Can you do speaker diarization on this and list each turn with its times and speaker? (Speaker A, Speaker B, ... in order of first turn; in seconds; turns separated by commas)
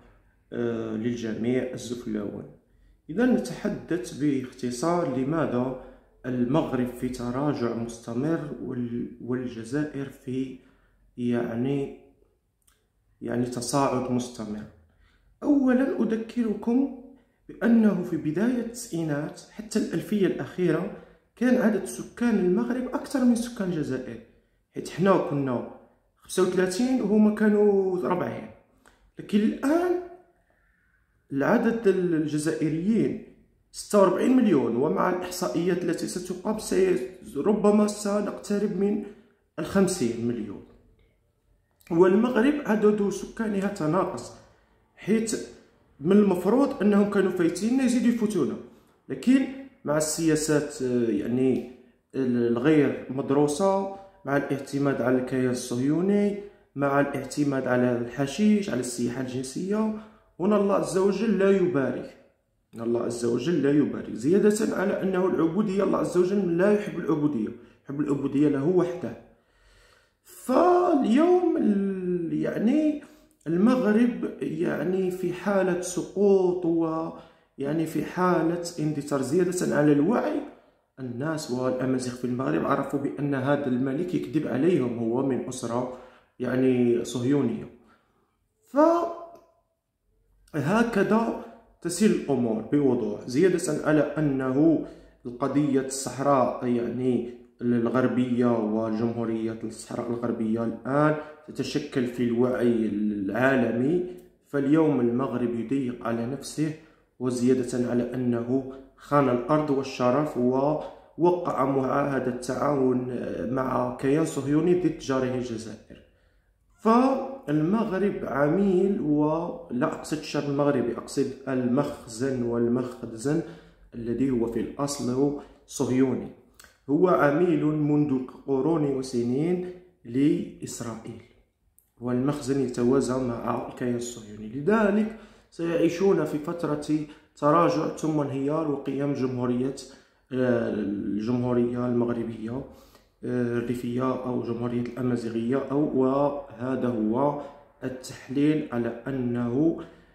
Speaker A: 0.5-2.5, Speaker A: 3.1-5.8, Speaker A: 6.3-10.6, Speaker A: 11.2-12.0, Speaker A: 13.2-14.7, Speaker A: 15.4-17.0, Speaker A: 17.5-25.7, Speaker A: 26.2-28.5, Speaker A: 29.2-30.0, Speaker A: 31.3-33.2, Speaker A: 33.7-39.0, Speaker A: 39.6-40.7, Speaker A: 42.0-44.3, Speaker A: 45.0-45.4, Speaker A: 46.0-62.2, Speaker A: 62.8-69.2, Speaker A: 70.2-80.4, Speaker A: 81.0-85.9, Speaker A: 86.4-87.7, Speaker A: 88.7-89.4, Speaker A: 90.6-116.0, Speaker A: 116.8-123.4, Speaker A: 124.0-126.3, Speaker A: 126.9-131.3, Speaker A: 132.0-142.6, Speaker A: 143.2-149.7